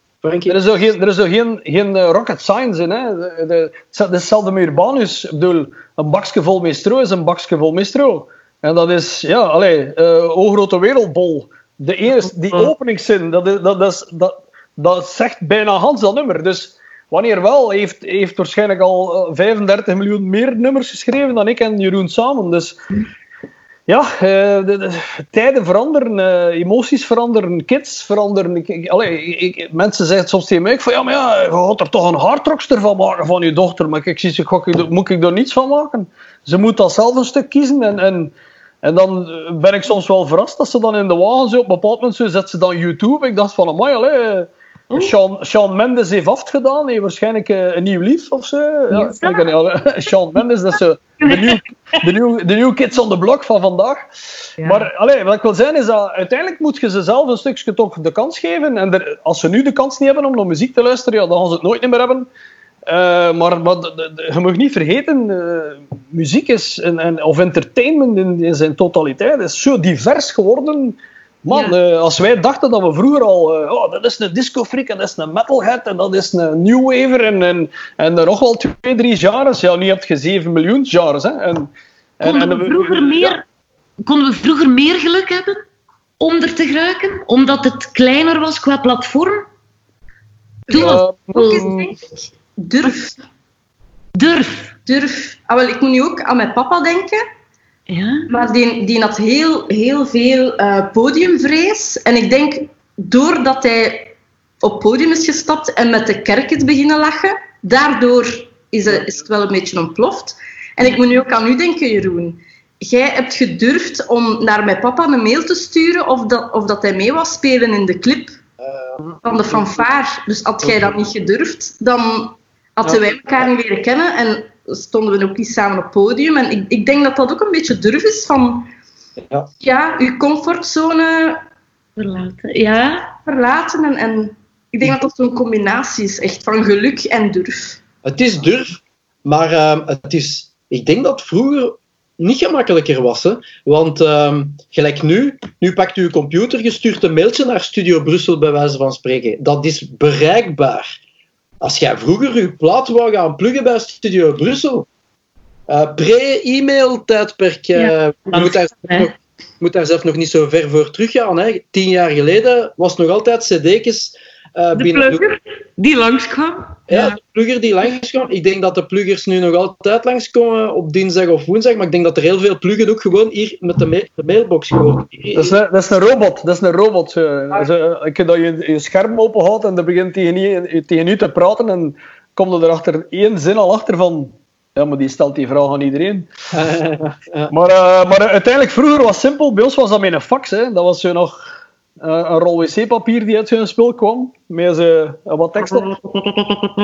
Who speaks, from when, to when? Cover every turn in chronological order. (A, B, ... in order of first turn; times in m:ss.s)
0:00.2-0:00.6 A
0:00.5-0:22.8 B
0:23.9-0:54.0 B
0:48.9-0:49.5 C
0:51.2-0:51.6 C
0:54.6-0:54.9 C
0:54.6-1:02.3 B
1:02.9-1:23.4 B
1:11.5-1:11.8 C
1:22.2-1:23.4 C
1:24.0-1:25.6 C
1:26.2-1:29.4 C
1:30.7-1:31.7 C
1:30.7-1:31.9 B
1:30.7-1:33.2 D
1:34.1-1:34.7 C
1:34.8-1:37.2 D
1:37.9-1:38.3 C
1:38.3-1:58.4 D
1:58.6-1:59.0 A
1:59.2-2:08.6 D
2:09.6-2:11.4 D
2:12.0-2:13.1 C
2:13.2-2:17.8 D
2:18.0-2:30.9 A
2:31.6-2:34.9 A
2:35.7-2:45.2 A
2:37.7-2:39.1 C
2:44.7-2:47.2 C
2:46.9-2:55.5 A
2:55.3-3:06.3 B
3:06.5-3:07.5 A
3:07.5-3:11.4 B
3:12.0-3:15.9 B